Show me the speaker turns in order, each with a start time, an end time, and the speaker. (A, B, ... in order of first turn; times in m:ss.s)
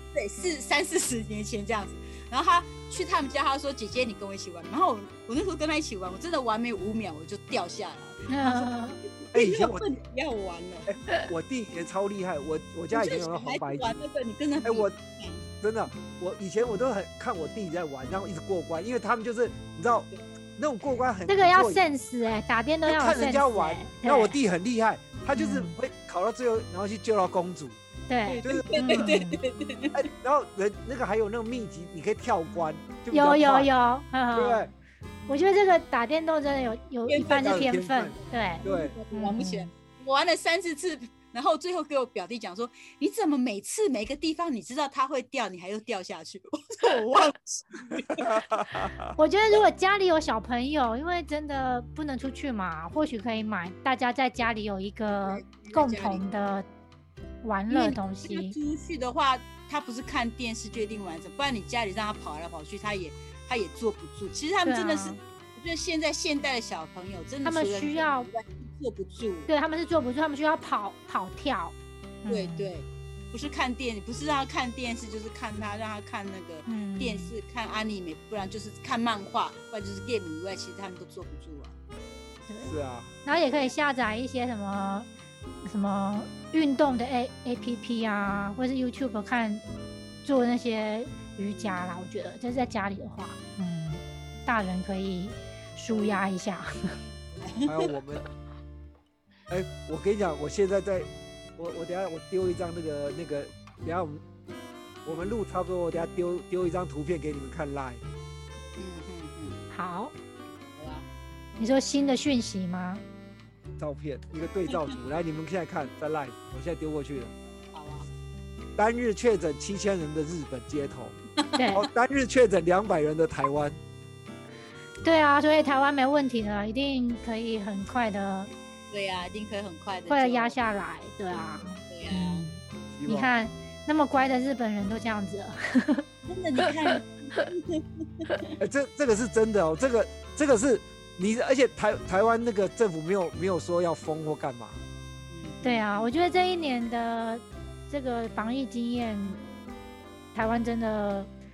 0:00.1-0:10.9 A
0:08.3-0:09.0 B
0:09.3-0:09.8 C
0:10.9-0:14.0 C
0:12.9-0:15.5 A
0:14.6-0:14.9 C
0:15.6-0:21.8 C
0:21.3-0:24.4 B
0:22.9-0:27.8 C
0:25.4-0:25.8 B
0:28.1-0:29.4 B
0:28.3-0:30.0 A
0:28.4-0:29.1 C
0:29.9-0:33.7 C
0:33.1-0:34.7 B
0:34.3-0:34.7 C
0:35.3-0:39.7 B
0:37.1-0:48.4 A
0:37.4-0:39.0 C
0:48.2-0:49.2 C
0:49.2-0:56.7 B
0:55.2-0:56.2 A
0:57.4-0:58.6 B
0:57.7-1:09.5 A
1:04.6-1:05.2 B
1:07.4-1:08.3 B
1:09.5-1:12.7 B
1:12.3-1:21.8 A
1:16.7-1:17.3 B
1:22.5-1:22.7 B
1:22.6-1:23.1 C
1:23.2-1:25.1 B
1:23.5-1:23.8 A
1:25.6-1:29.6 B
1:30.2-1:37.0 B
1:31.5-1:31.9 A
1:35.9-1:36.3 A
1:37.4-1:37.9 A
1:37.7-1:38.2 C
1:39.5-1:44.2 C
1:45.0-1:48.0 C
1:45.1-1:45.3 A
1:48.8-1:49.6 A
1:49.7-1:50.1 B
1:50.8-1:51.1 A
1:51.6-1:53.0 B
1:53.8-1:57.3 C
1:57.7-1:58.1 A
1:58.8-2:01.2 C
2:01.4-2:01.9 A
2:01.6-2:01.8 B
2:01.7-2:03.8 C
2:05.0-2:08.5 B
2:08.9-2:10.6 A
2:10.1-2:16.0 B
2:11.3-2:12.5 A
2:12.9-2:13.3 C
2:16.3-2:18.6 A
2:18.6-2:24.8 C
2:25.3-2:26.1 A
2:25.6-2:29.4 B
2:30.3-2:31.3 B